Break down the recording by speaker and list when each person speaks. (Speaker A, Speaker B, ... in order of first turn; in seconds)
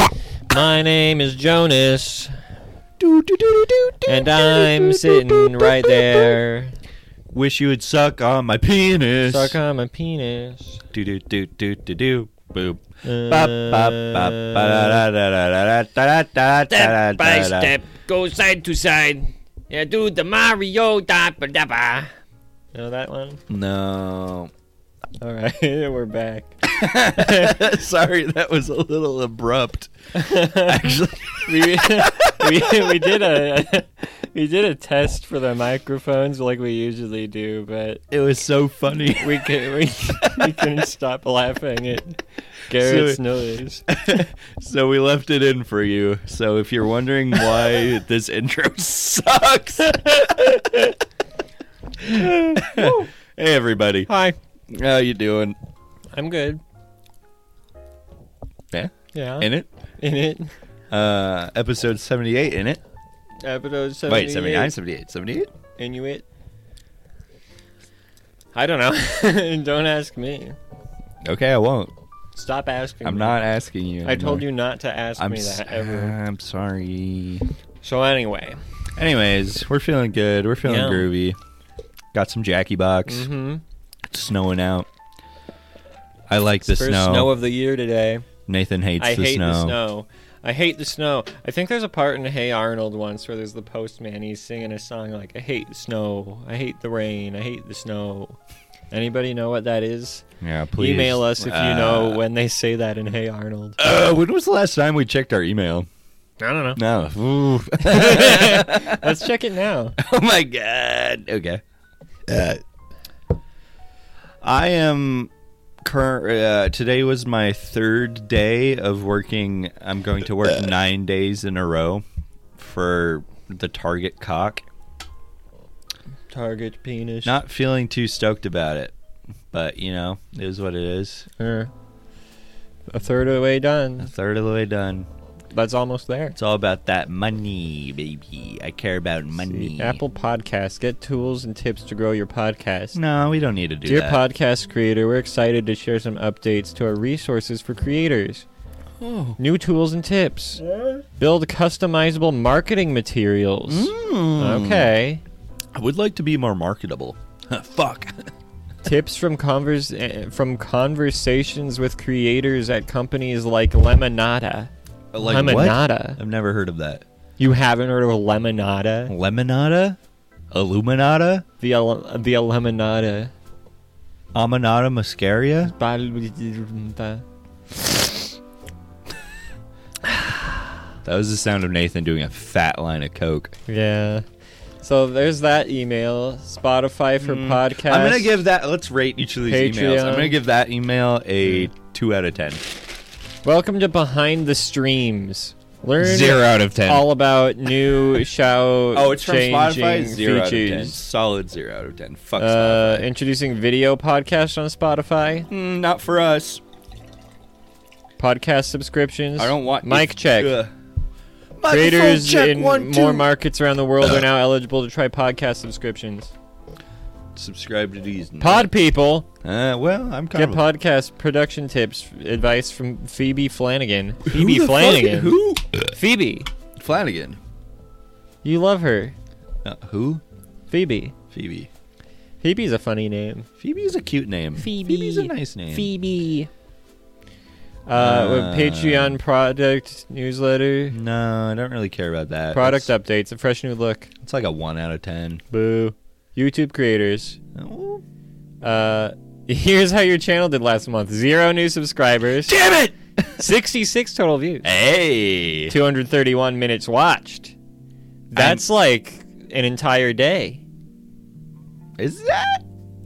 Speaker A: 0.5-2.3, 4.1-6.7, 9.3-10.8, 13.0-15.0, 16.7-22.1, 22.7-23.4, 25.2-27.6, 30.1-38.0, 39.2-43.9, 50.2-50.9, 52.0-53.1, 54.1-54.4, 56.1-56.6, 59.1-60.5, 63.4-64.8, 65.8-66.2, 68.5-70.6, 72.3-73.4, 74.0-76.2, 77.8-78.6, 80.6-81.1, 83.1-83.6, 86.6-88.3, 89.0-98.4, 98.9-100.2, 100.8-103.8, 106.4-106.8, 107.7-110.0, 126.3-127.4, 131.4-131.7, 132.9-134.1, 135.5-136.4, 139.4-143.0, 143.8-148.4, 149.4-150.6, 151.2-155.2, 158.8-166.2, 167.4-169.1, 171.6-173.3, 175.6-178.1, 180.1-180.7, 183.7-184.2, 184.8-188.4, 189.5-190.4, 191.4-191.7, 193.4-201.0, 202.4-205.5, 208.2-210.6, 211.7-216.3, 218.4-219.3, 220.3-225.4, 225.9-226.5, 228.4-229.2, 230.7-231.1, 232.4-233.5, 234.6-236.5, 237.9-241.0, 242.5-244.1, 245.5-247.4, 248.6-252.6, 253.4-254.7, 255.7-257.5, 258.3-260.6
Speaker B: 3.0-6.4, 7.3-9.6, 10.9-17.8, 23.5-24.5, 26.6-33.2, 38.1-39.6, 40.2-40.7, 42.7-43.2, 43.9-50.6, 52.1-54.1, 54.7-55.6, 58.7-59.7, 60.9-62.8, 64.1-65.5, 71.2-71.9, 73.0-74.5, 75.2-77.5, 79.0-81.4, 82.1-83.3, 84.1-84.9, 86.3-87.3, 88.5-89.8, 100.4-102.2, 103.8-105.9, 106.8-109.2, 110.0-111.6, 112.3-112.6, 114.4-115.3, 115.8-122.0, 122.6-124.7, 127.2-128.9, 129.5-131.3, 134.0-135.1, 136.4-140.0, 142.9-144.2, 149.0-149.4, 153.7-154.9, 155.7-158.3, 165.1-167.1, 169.1-170.0, 170.5-171.4, 174.3-175.8, 181.0-183.6, 187.2-192.7, 196.0-197.1, 198.9-203.1, 205.5-206.6, 209.4-210.7, 211.6-213.3, 217.3-218.7, 219.4-220.7, 224.3-225.9, 226.8-227.4, 229.6-230.2, 231.3-231.7, 233.6-235.9, 237.9-239.2, 240.9-242.9, 244.2-245.4, 247.6-248.0, 252.4-253.4, 254.6-255.8, 258.3-258.7, 262.0-262.6